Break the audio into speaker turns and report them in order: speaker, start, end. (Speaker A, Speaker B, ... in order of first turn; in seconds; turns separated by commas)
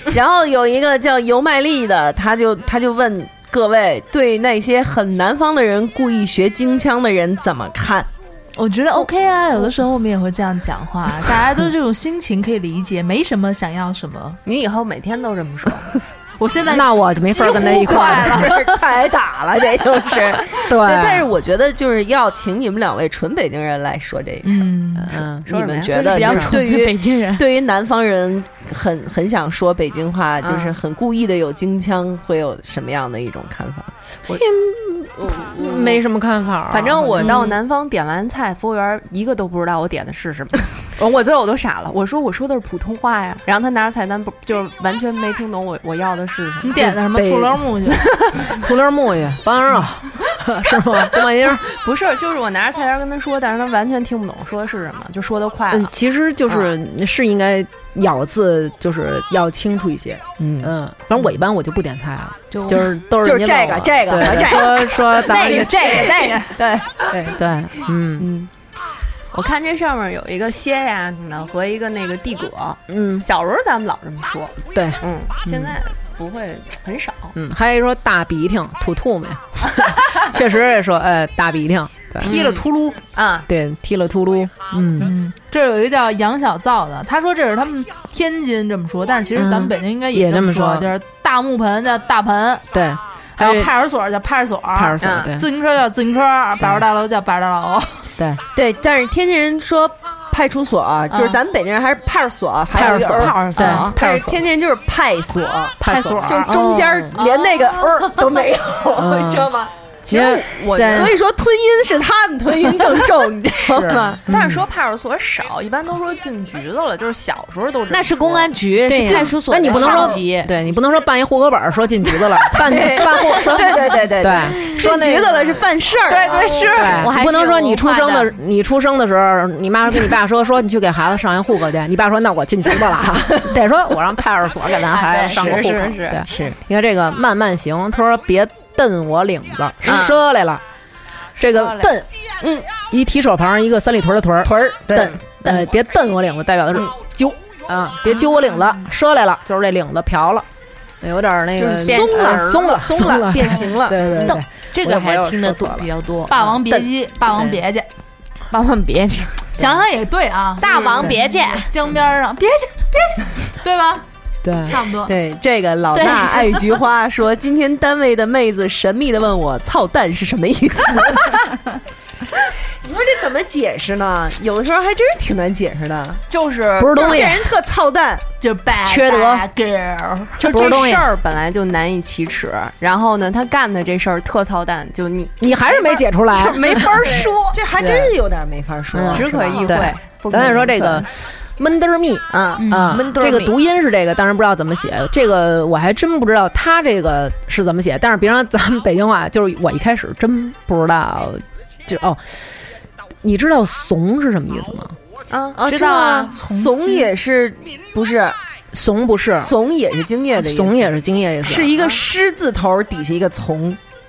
Speaker A: 0.1-8.1, Speaker B: 8.6-14.4, Speaker C: 14.4-15.9, Speaker B: 16.4-18.7, Speaker D: 16.7-18.7, Speaker A: 17.7-24.5, Speaker D: 20.6-21.3, Speaker B: 24.4-25.2, Speaker D: 25.0-26.6, Speaker C: 25.5-26.4, Speaker A: 25.5-33.9, Speaker E: 26.1-27.4, Speaker C: 30.4-30.8, Speaker D: 34.3-37.4, Speaker C: 35.2-36.0, Speaker C: 36.7-46.9, Speaker A: 37.2-37.5, Speaker B: 46.6-48.2, Speaker D: 46.8-51.6, Speaker C: 51.5-55.9, Speaker D: 55.7-66.3, Speaker A: 60.4-60.7, Speaker A: 63.2-67.1, Speaker B: 65.5-66.5, Speaker D: 67.1-68.3, Speaker A: 68.2-68.5, Speaker C: 69.3-77.4, Speaker D: 72.9-73.3, Speaker D: 74.7-75.8, Speaker D: 77.3-82.6, Speaker C: 82.2-83.5, Speaker B: 82.2-83.0, Speaker D: 83.5-85.1, Speaker B: 85.0-92.7, Speaker D: 89.3-90.9, Speaker D: 92.7-93.7, Speaker B: 93.4-98.0, Speaker D: 94.7-95.5, Speaker C: 95.0-95.3, Speaker D: 96.6-96.9, Speaker D: 98.2-98.4, Speaker A: 98.5-114.4, Speaker D: 102.7-104.4, Speaker C: 102.8-103.9, Speaker D: 105.8-107.2, Speaker B: 105.8-106.4, Speaker C: 107.2-107.9, Speaker D: 109.0-109.5, Speaker C: 110.0-111.1, Speaker D: 110.1-111.2, Speaker D: 113.7-114.6, Speaker C: 114.3-120.2, Speaker E: 117.9-120.5, Speaker D: 118.9-125.7, Speaker A: 122.6-126.5, Speaker C: 126.1-127.1, Speaker E: 126.1-128.3, Speaker D: 126.5-140.6, Speaker C: 134.9-136.3, Speaker A: 135.3-135.7, Speaker A: 136.3-136.6, Speaker C: 139.9-140.1, Speaker D: 141.4-142.1, Speaker A: 142.4-142.7, Speaker D: 142.9-150.5, Speaker A: 144.5-145.2, Speaker D: 151.0-155.9, Speaker A: 151.6-154.3, Speaker C: 151.9-152.3, Speaker E: 154.2-156.3, Speaker B: 156.3-157.9, Speaker D: 156.7-157.6, Speaker E: 158.5-159.4, Speaker B: 159.6-164.0, Speaker E: 160.6-161.7, Speaker D: 164.4-164.8, Speaker B: 164.7-165.1, Speaker A: 165.1-171.4, Speaker E: 165.9-166.4, Speaker A: 172.8-176.2, Speaker C: 176.3-177.2, Speaker D: 176.8-177.5, Speaker A: 176.9-178.2, Speaker B: 178.4-180.5, Speaker D: 178.7-179.5, Speaker D: 180.4-181.1, Speaker C: 180.4-187.5, Speaker D: 185.4-187.2, Speaker A: 186.3-189.7, Speaker D: 187.8-188.2, Speaker D: 188.9-202.4, Speaker C: 189.1-191.1, Speaker C: 192.3-192.8, Speaker B: 192.6-193.0, Speaker E: 192.9-193.6, Speaker D: 203.2-205.0, Speaker C: 205.3-205.6, Speaker A: 205.6-208.4, Speaker E: 205.7-206.3, Speaker B: 206.3-207.1, Speaker D: 208.7-209.5, Speaker A: 209.3-213.8, Speaker D: 210.4-211.8